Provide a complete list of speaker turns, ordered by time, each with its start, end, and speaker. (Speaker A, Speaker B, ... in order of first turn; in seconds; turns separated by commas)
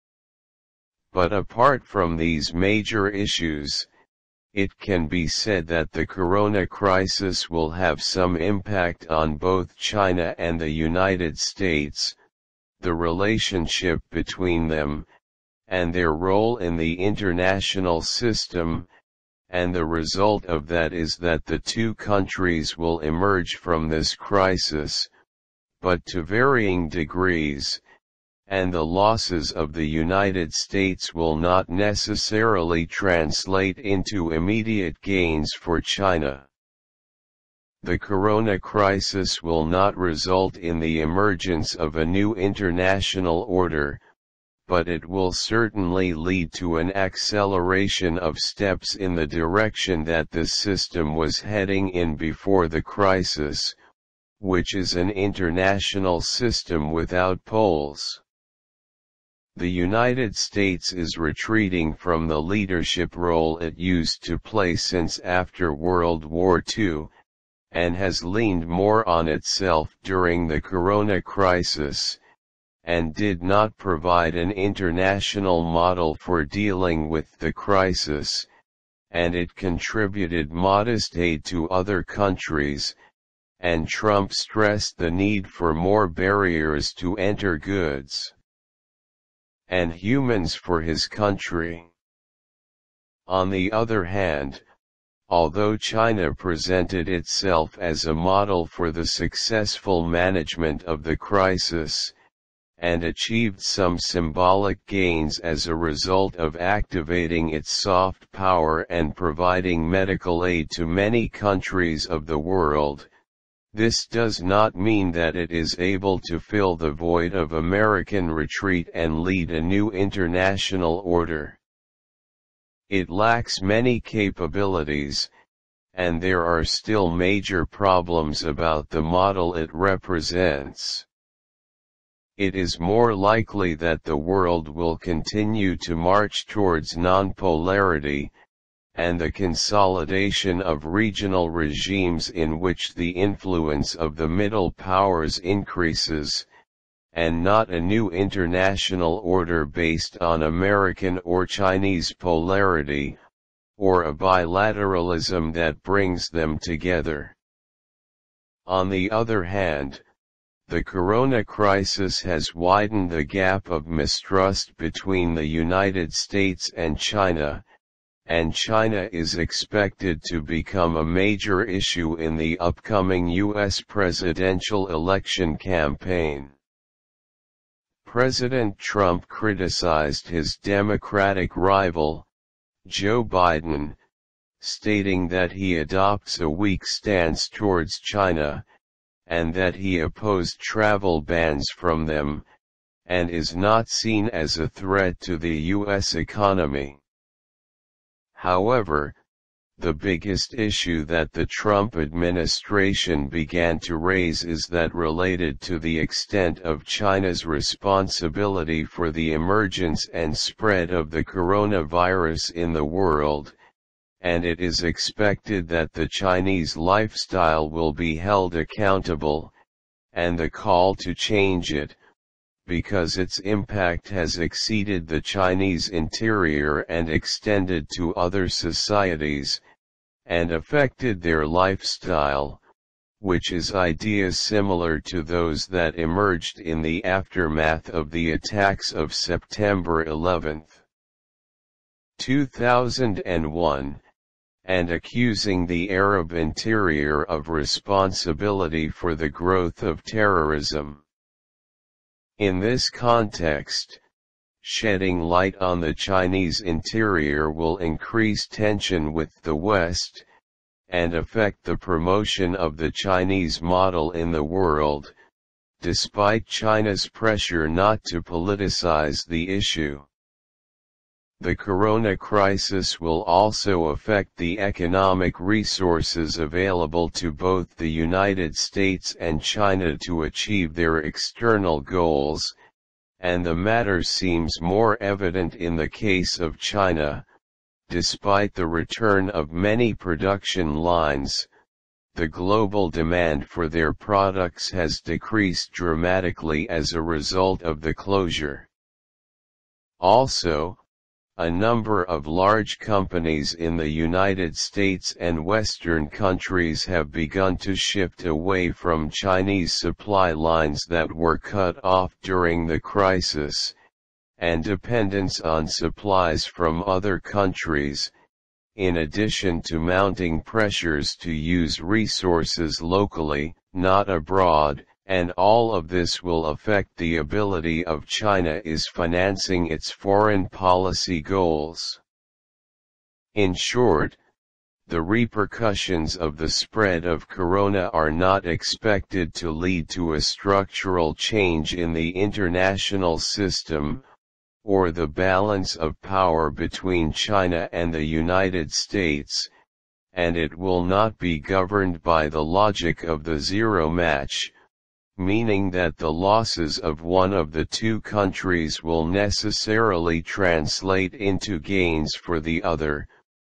Speaker A: 1.1-3.9, Speaker A: 4.5-12.2, Speaker A: 12.8-15.1, Speaker A: 15.7-18.9, Speaker A: 19.5-25.1, Speaker A: 25.8-27.8, Speaker A: 28.5-36.5, Speaker A: 37.8-44.0, Speaker A: 44.7-53.8, Speaker A: 54.4-58.2, Speaker A: 59.5-67.1, Speaker A: 67.7-72.2, Speaker A: 72.8-78.5, Speaker A: 79.1-82.9, Speaker A: 83.6-88.3, Speaker A: 89.7-91.9, Speaker A: 93.3-94.6, Speaker A: 95.3-102.1, Speaker A: 102.8-113.1, Speaker A: 113.7-121.6, Speaker A: 122.9-125.3, Speaker A: 125.9-131.1, Speaker A: 132.4-138.3, Speaker A: 138.9-146.5, Speaker A: 147.1-153.2, Speaker A: 153.8-157.3, Speaker A: 158.7-160.0, Speaker A: 160.7-167.6, Speaker A: 168.2-176.5, Speaker A: 178.0-182.3, Speaker A: 182.8-184.0, Speaker A: 184.6-188.6, Speaker A: 189.3-192.4, Speaker A: 193.1-197.0, Speaker A: 198.3-199.2, Speaker A: 199.8-213.5, Speaker A: 214.2-219.5, Speaker A: 220.1-222.0, Speaker A: 222.7-229.6, Speaker A: 230.2-232.6, Speaker A: 233.2-240.8, Speaker A: 242.2-244.0, Speaker A: 244.6-251.0, Speaker A: 252.4-254.0, Speaker A: 254.6-260.2, Speaker A: 260.9-265.1, Speaker A: 265.8-270.1, Speaker A: 271.4-282.5, Speaker A: 283.2-287.2, Speaker A: 287.9-291.5, Speaker A: 292.1-298.7, Speaker A: 300.0-300.8, Speaker A: 301.4-313.7, Speaker A: 314.4-318.1, Speaker A: 318.7-332.0, Speaker A: 333.3-334.2, Speaker A: 334.9-344.0, Speaker A: 344.6-349.5, Speaker A: 350.1-354.5, Speaker A: 355.2-363.1